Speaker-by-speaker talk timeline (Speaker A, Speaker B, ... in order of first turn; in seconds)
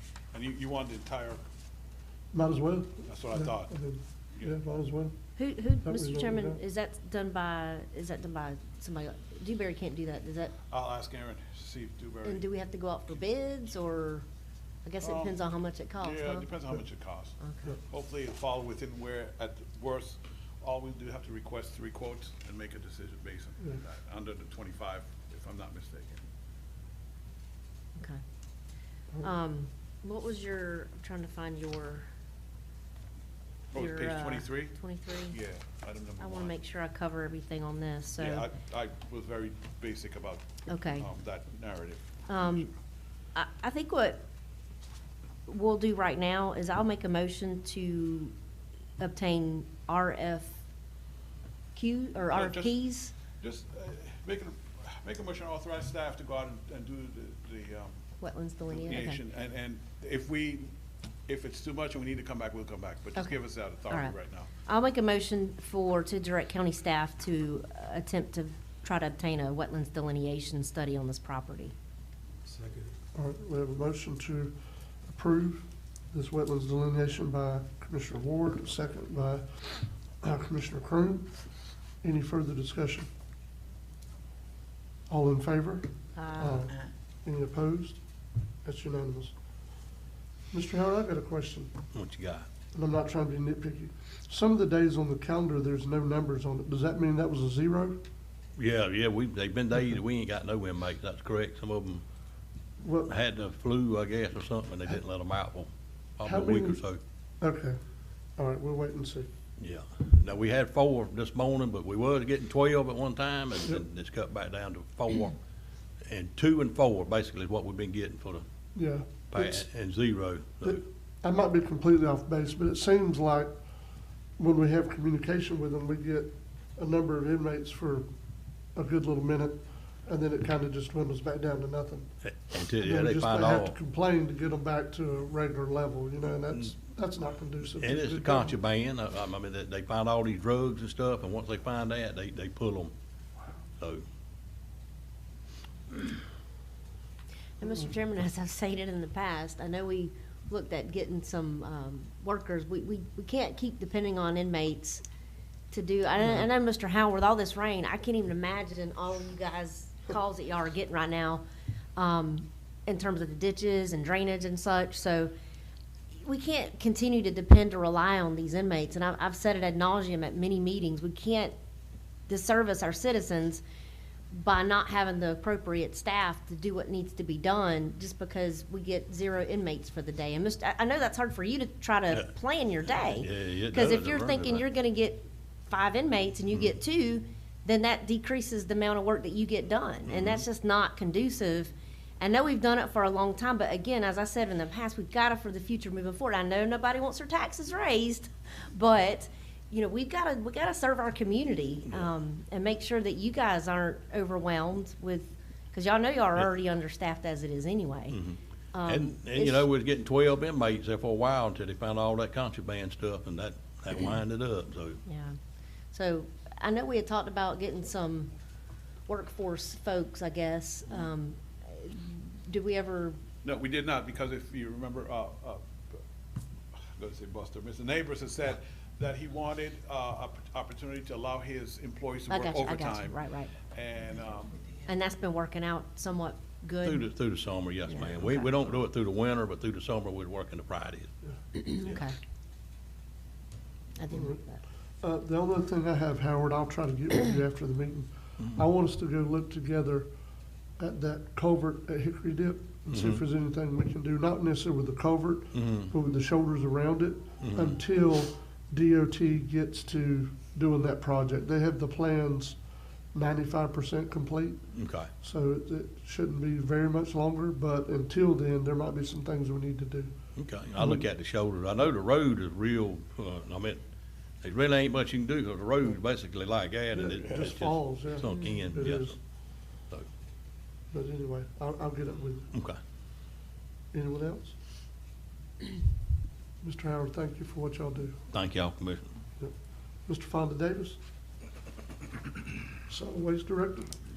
Speaker A: 0.3-1.4, 3.1-3.8, 10.7-12.5, 15.0-15.4, 16.0-17.4, 17.9-26.2, 33.7-36.6, 38.2-42.7, 52.3-52.8, 53.4-58.0, 58.7-60.7, 61.3-64.5, 223.4-226.0, 227.0-234.6
Speaker B: 2.3-5.2, 5.8-6.6, 73.2-81.4, 82.0-83.1, 85.1-88.0, 88.7-89.3, 90.5-91.7, 92.7-98.0, 102.8-103.1, 106.2-106.8, 107.4-107.8, 108.4-109.3, 118.8-119.7, 120.6-123.5, 124.4-128.1, 128.8-132.1, 132.8-138.6, 244.1-244.4, 245.0-250.1, 250.8-262.6, 263.1-264.6, 265.2-270.1, 270.8-271.1, 276.9-279.1, 280.9-282.5, 283.9-284.6, 286.6-288.2, 290.1-291.0, 292.9-293.9
Speaker C: 5.4-10.6, 12.2-14.2, 14.8-16.5, 17.4-17.8, 29.2-32.1, 33.8-35.4, 36.2-38.5, 40.7-41.1, 42.3-42.7, 43.4-44.2, 45.5-48.3, 49.0-50.6, 51.7-53.1, 58.2-59.2, 64.7-71.7, 86.2-86.7, 147.6-155.0, 155.7-161.4, 162.0-165.3, 166.2-171.5, 172.3-173.6, 174.3-208.2, 208.7-209.7, 215.1-215.4, 215.9-218.3, 219.1-223.2, 232.3-233.5, 234.9-237.1, 237.9-238.5, 241.6-242.2, 244.0-244.6, 278.2-278.6
Speaker D: 91.9-92.5, 98.6-102.0, 103.1-107.0, 109.6-115.4, 116.1-118.5, 119.3-120.8, 132.2-133.8, 137.8-142.9, 183.1-184.7, 190.1-190.4, 208.1-215.0, 236.8-241.1, 252.9-253.2, 255.5-255.9, 257.4-257.8, 264.7-265.1, 270.4-273.8, 274.4-279.2, 282.5-282.8, 288.3-289.1